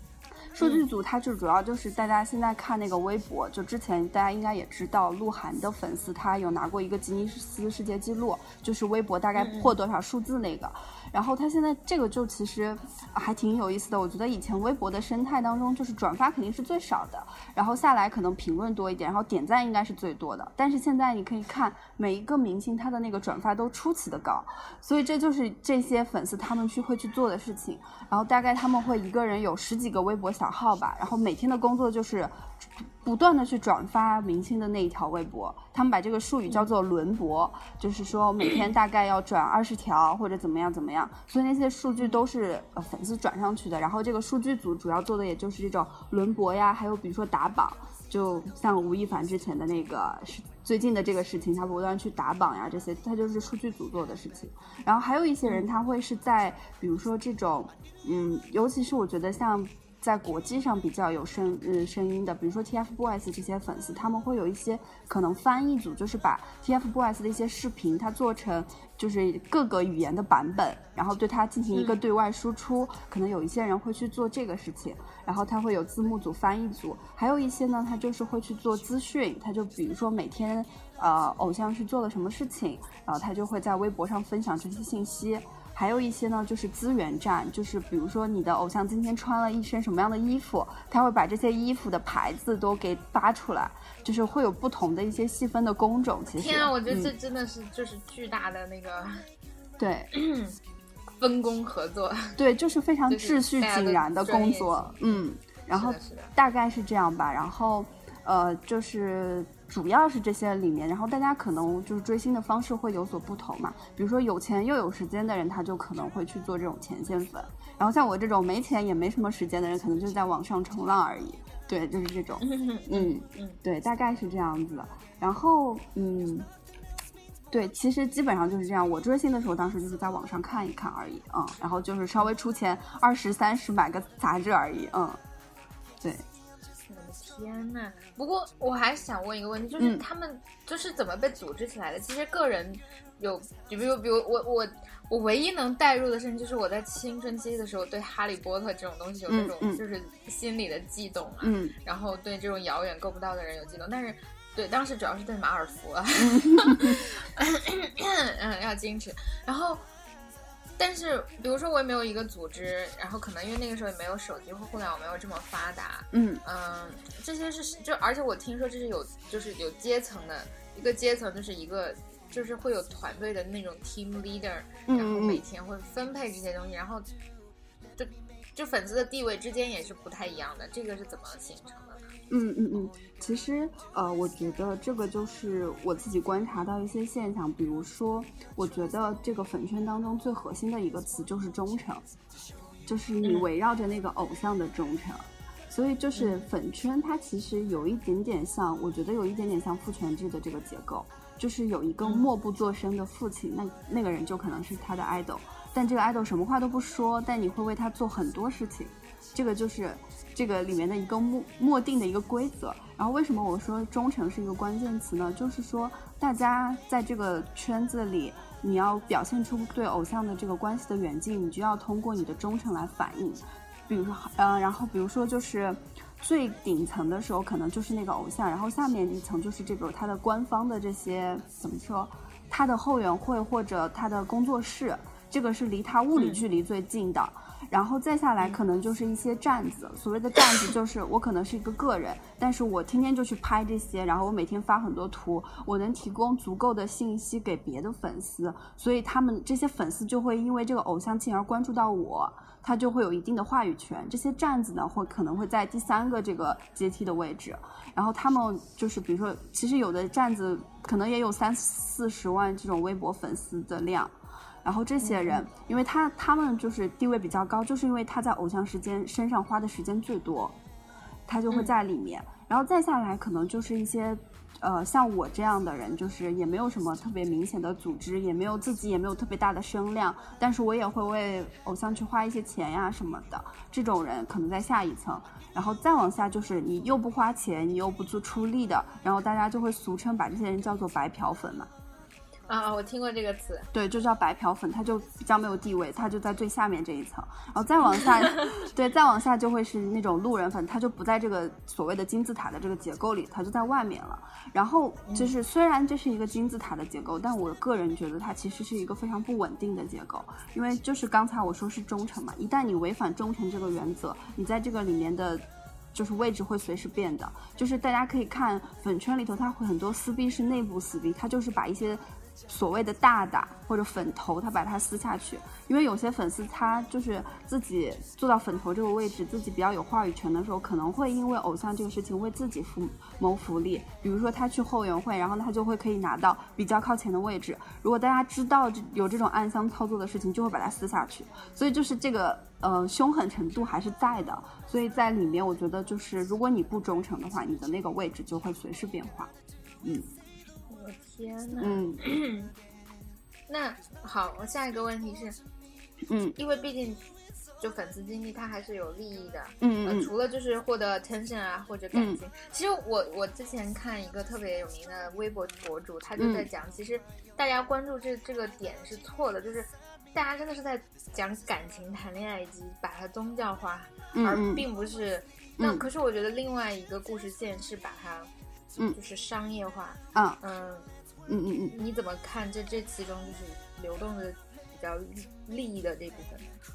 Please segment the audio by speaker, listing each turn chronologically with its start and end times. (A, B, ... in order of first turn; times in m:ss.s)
0:00.5-1:37.1 A
0:09.4-0:09.7 B
1:11.7-1:12.0 B
1:36.3-1:39.2 B
1:39.8-1:40.1 A
1:40.1-1:40.6 B
1:41.2-1:42.4 B
1:42.4-2:06.5 A
1:43.1-1:46.3 B
2:02.4-2:03.6 B
2:07.5-2:15.2 A
2:16.9-2:39.8 B
2:19.8-2:20.0 A
2:29.3-2:29.8 A
2:31.4-2:31.7 A
2:36.2-2:37.0 A
2:40.8-2:57.1 B
2:46.1-2:46.4 A
2:54.9-2:55.4 A
2:58.0-3:02.1 B
3:02.3-3:12.0 A
3:12.9-4:30.6 A
3:13.2-3:13.5 B
3:16.2-3:16.4 B
3:22.0-3:22.3 B
3:56.2-3:56.4 B
4:25.0-4:25.5 B
4:31.3-4:51.7 A
4:52.5-4:53.7 B
4:53.7-5:49.3 A
4:58.0-4:58.5 B
5:05.1-5:05.4 B
5:49.8-5:50.1 A
5:50.7-5:52.5 B
5:51.6-5:52.0 A
5:53.5-5:55.4 B
5:56.1-5:56.4 A
5:56.4-5:57.0 B
5:57.6-6:18.3 B
5:59.6-6:00.1 A
6:01.9-6:02.2 A
6:06.2-6:06.5 A
6:14.1-6:14.7 A
6:15.6-6:15.9 A
6:18.9-6:20.9 B
6:21.3-6:21.8 A
6:21.7-6:26.5 B